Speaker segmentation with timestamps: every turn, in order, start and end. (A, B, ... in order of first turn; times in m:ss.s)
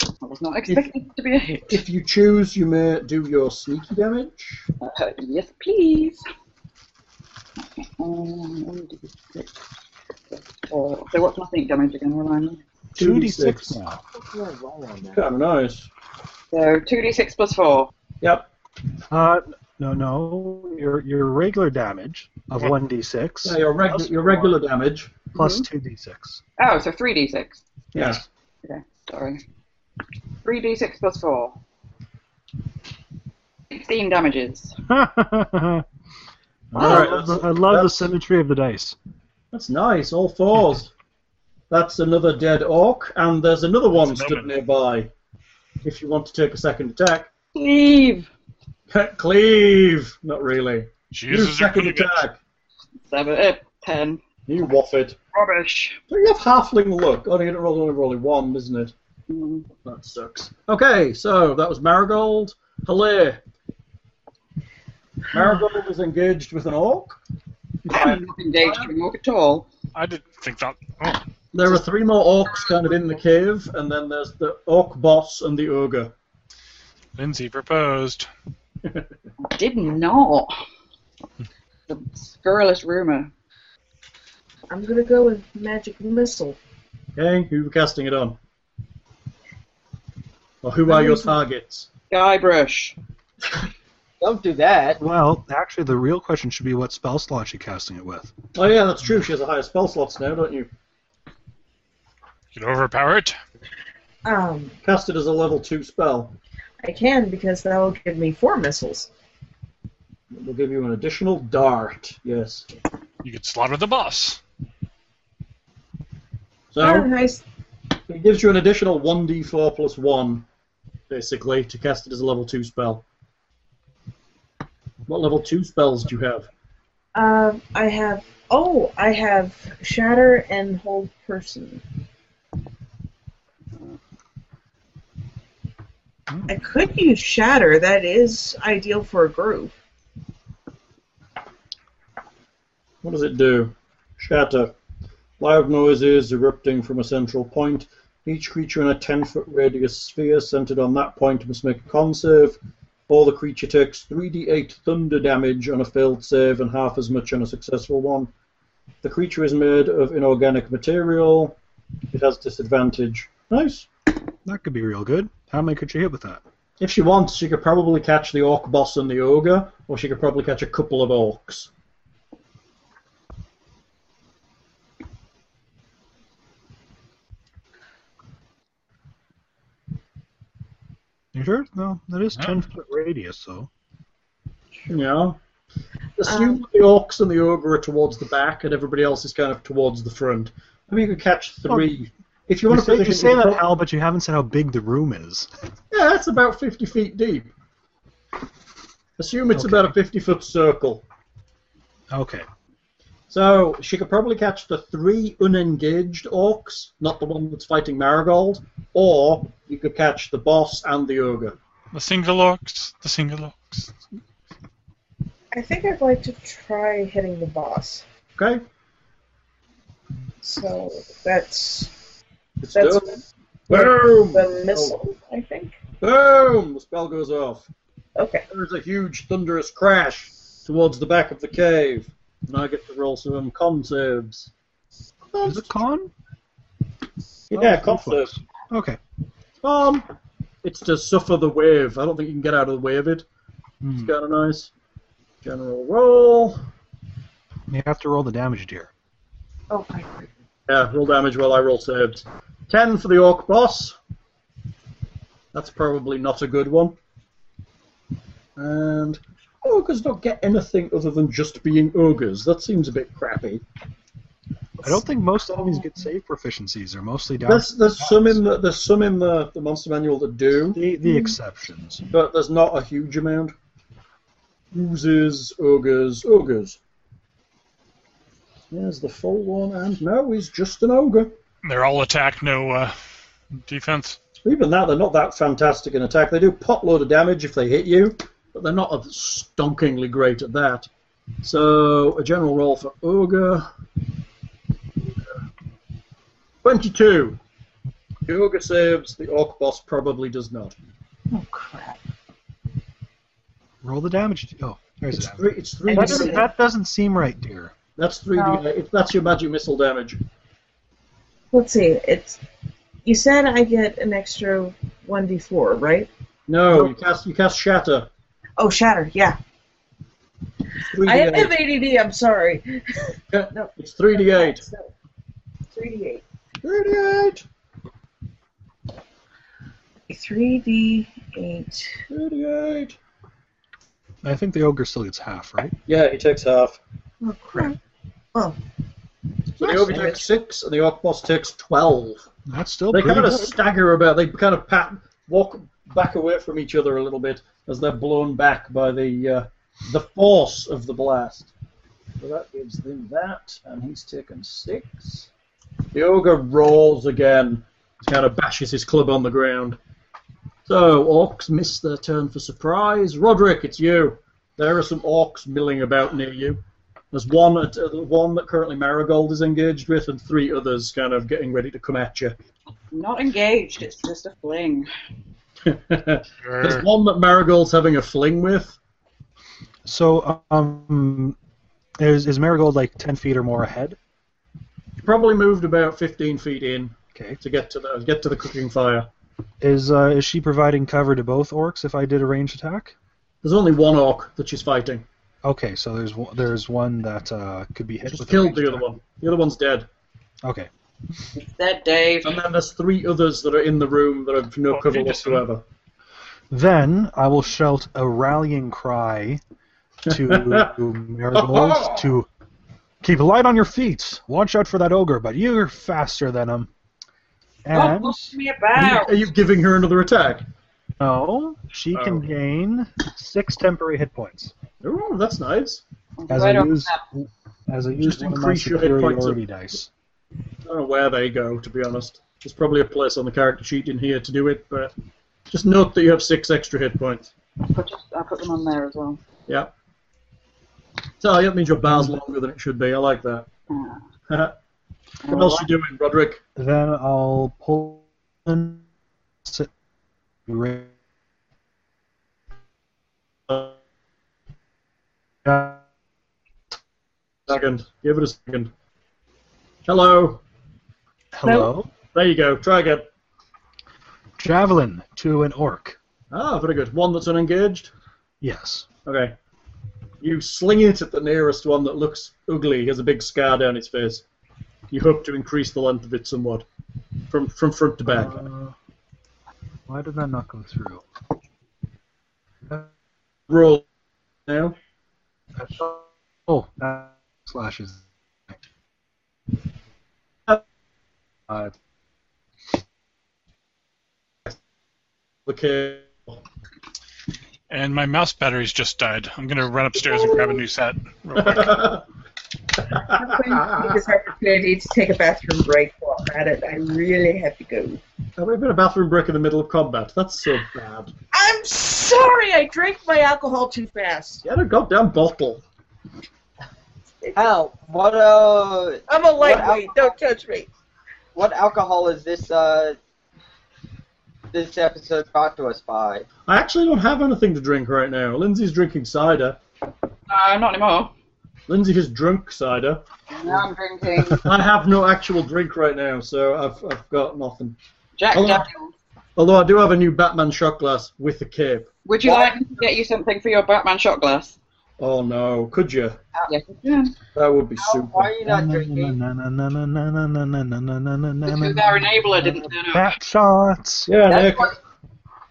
0:00.2-0:01.8 A
0:01.7-0:04.6 B
0:04.8-0:06.2 A
0:07.6-0:09.5 A
0:10.7-0:12.6 A
0:13.0-0:13.8 B
0:13.0-0:14.0 C
0:14.1-0:15.2 D
0:15.1-0:15.9 B
0:16.5-0:17.9 A
0:18.2-0:18.4 B
0:19.1-0:24.5 C
0:23.4-0:25.2 B
0:25.3-0:26.4 C
0:25.3-0:25.7 A
0:26.6-0:27.6 A
0:27.9-0:28.2 B
0:27.9-0:28.2 C
0:28.6-0:29.4 A
0:30.4-0:31.6 A
0:33.7-0:34.7 A
0:34.9-0:35.8 C
0:36.7-0:38.1 B
0:36.7-0:39.0 C
0:39.5-0:40.9 B
0:41.7-0:45.1 B
0:43.9-0:44.5 E
0:45.8-0:47.3 B
0:47.5-0:48.3 A
0:48.9-0:52.4 B
0:51.1-0:52.2 E
0:53.1-0:54.2 A
0:54.5-0:55.2 B
0:55.3-0:56.0 A
0:56.1-0:58.9 B
0:59.3-0:59.7 A
0:59.8-1:03.4 B
1:05.3-1:07.2 B
1:07.8-1:08.9 B
1:07.9-1:09.7 A
1:09.9-1:11.2 E
1:11.5-1:16.1 B
1:17.2-1:18.3 E
1:19.4-1:20.5 A
1:21.9-1:23.3 A
1:24.7-1:26.6 F
1:27.2-1:28.4 B
1:30.6-1:31.9 B
1:30.8-1:31.4 F
1:32.1-1:33.0 A
1:34.2-1:35.0 D
1:35.0-1:38.3 C
1:38.5-1:40.7 B
1:42.5-1:43.4 E
1:44.2-1:44.7 F
1:44.8-1:46.4 B
1:46.8-1:49.1 F
1:50.3-1:52.6 B
1:53.2-1:54.4 E
1:56.7-1:57.1 B
1:56.8-1:57.4 F
1:58.1-2:00.4 B
2:01.1-2:03.0 B
2:05.1-2:06.5 B
2:07.1-2:11.8 F
2:16.5-2:19.7 F
2:23.0-2:24.7 B
2:25.4-2:38.3 B
2:39.0-2:41.6 B
2:42.1-2:43.9 B
2:44.4-2:46.4 C
2:46.8-2:51.7 B
3:01.3-3:03.7 C
3:04.9-3:05.4 B
3:06.2-3:13.6 B
3:06.2-3:06.6 F
3:12.7-3:15.5 C
3:15.9-3:17.5 B
3:19.2-3:21.0 B
3:19.5-3:19.9 C
3:22.1-3:22.5 C
3:23.3-3:31.6 B
3:31.9-3:33.9 E
3:35.5-3:38.0 F
3:38.4-3:38.6 B
3:40.4-3:41.9 F
3:42.6-3:45.0 B
3:42.7-3:45.8 F
3:46.0-3:47.7 B
3:48.2-3:48.4 F
3:48.5-3:54.5 B
3:55.3-3:55.7 B
3:55.4-3:56.1 C
3:57.5-3:58.3 B
3:57.5-3:59.0 C
3:59.6-4:00.0 B
4:00.6-4:03.2 B
4:03.8-4:04.1 C
4:03.9-4:04.7 B
4:05.4-4:06.6 B
4:07.7-4:08.9 C
4:09.7-4:10.3 F
4:10.7-4:14.0 B
4:15.5-4:17.0 B
4:18.6-4:23.6 B
4:24.8-4:28.4 C
4:25.6-4:26.0 F
4:27.4-4:30.8 B
4:30.7-4:32.0 C
4:31.0-4:31.4 F
4:32.1-4:33.5 B
4:34.7-4:36.8 B
4:38.7-4:41.3 B
4:41.6-4:42.9 E
4:43.6-4:44.2 E
4:44.4-4:50.9 B
4:51.4-4:53.7 B
4:56.6-4:57.4 B
4:58.2-5:00.7 B
5:01.3-5:02.0 F
5:03.8-5:07.7 C
5:05.1-5:06.4 B
5:05.8-5:06.5 F
5:08.0-5:10.2 B
5:08.3-5:08.6 F
5:11.5-5:12.4 F
5:13.0-5:16.1 F
5:16.5-5:18.1 B
5:18.6-5:19.4 F
5:20.8-5:21.6 B
5:20.9-5:24.9 F
5:23.3-5:24.6 B
5:25.7-5:26.2 F
5:26.6-5:27.4 B
5:30.1-5:32.0 F
5:32.1-5:33.0 B
5:34.2-5:35.8 C
5:35.9-5:36.8 B
5:37.2-5:37.8 F
5:39.6-5:42.2 B
5:39.6-5:40.3 F
5:42.5-5:43.6 C
5:42.9-5:51.5 B
5:52.2-5:55.3 B
5:55.9-5:59.8 B
6:00.7-6:06.6 B
6:07.1-6:12.4 B
6:12.9-6:14.9 A
6:15.6-6:18.8 B
6:16.4-6:16.9 E
6:19.8-6:21.4 C
6:22.0-6:24.0 C
6:25.0-6:29.1 B
6:29.6-6:32.9 C
6:33.4-6:35.0 B
6:35.4-6:38.9 C
6:38.1-6:39.9 B
6:40.4-6:40.7 C
6:41.3-6:42.4 A
6:42.2-6:45.6 B
6:44.7-6:45.4 E
6:46.5-6:49.4 C
6:50.1-6:50.7 B
6:50.1-6:52.3 C
6:51.3-6:52.1 B
6:53.0-6:56.7 C
6:57.6-6:58.3 C
6:57.7-6:59.2 A
6:58.7-7:00.4 B
7:01.0-7:04.5 C
7:01.9-7:02.2 B
7:04.8-7:05.8 B
7:06.2-7:07.0 A
7:06.3-7:09.9 C
7:08.0-7:09.4 B
7:10.6-7:14.9 B
7:15.5-7:17.3 B
7:17.6-7:19.2 A
7:21.2-7:23.5 B
7:21.9-7:22.2 C
7:23.7-7:24.0 A
7:24.3-7:24.5 B
7:25.2-7:25.7 A
7:25.3-7:26.4 B
7:26.6-7:28.8 C
7:29.4-7:29.7 C
7:30.5-7:30.9 C
7:33.5-7:33.7 B
7:35.4-7:35.8 C
7:37.5-7:38.7 B
7:39.8-7:40.4 B
7:41.3-7:41.9 C
7:41.4-7:41.7 F
7:42.0-7:43.1 B
7:44.4-7:46.0 C
7:46.3-7:47.9 B
7:48.4-7:48.9 C
7:49.0-7:49.3 B
7:50.2-7:54.2 B
7:54.9-7:56.6 B
7:57.3-7:58.5 B
7:58.0-7:58.7 C
7:59.9-8:01.0 C
8:03.5-8:03.8 B
8:04.4-8:04.8 B
8:05.6-8:08.5 C
8:15.4-8:16.4 B
8:17.7-8:21.8 E
8:21.3-8:22.0 B
8:22.8-8:24.0 B
8:22.9-8:28.0 F
8:28.4-8:31.1 B
8:31.3-8:34.4 F
8:34.4-8:35.6 B
8:37.2-8:37.5 F
8:37.4-8:40.0 D
8:39.1-8:40.7 F
8:41.3-8:43.0 D
8:44.5-8:46.3 D
8:46.5-8:49.6 B
8:50.3-8:51.1 A
8:51.7-8:53.6 B
8:53.3-8:54.4 A
8:54.3-8:57.8 B
8:58.2-8:58.9 A
8:58.3-8:58.7 B
8:59.4-9:02.8 B
9:02.0-9:04.6 A
9:05.0-9:06.2 B
9:06.5-9:07.1 A
9:07.3-9:08.3 B
9:07.8-9:09.2 D
9:08.4-9:14.1 C
9:11.4-9:13.1 A
9:14.1-9:14.8 B
9:14.2-9:14.7 D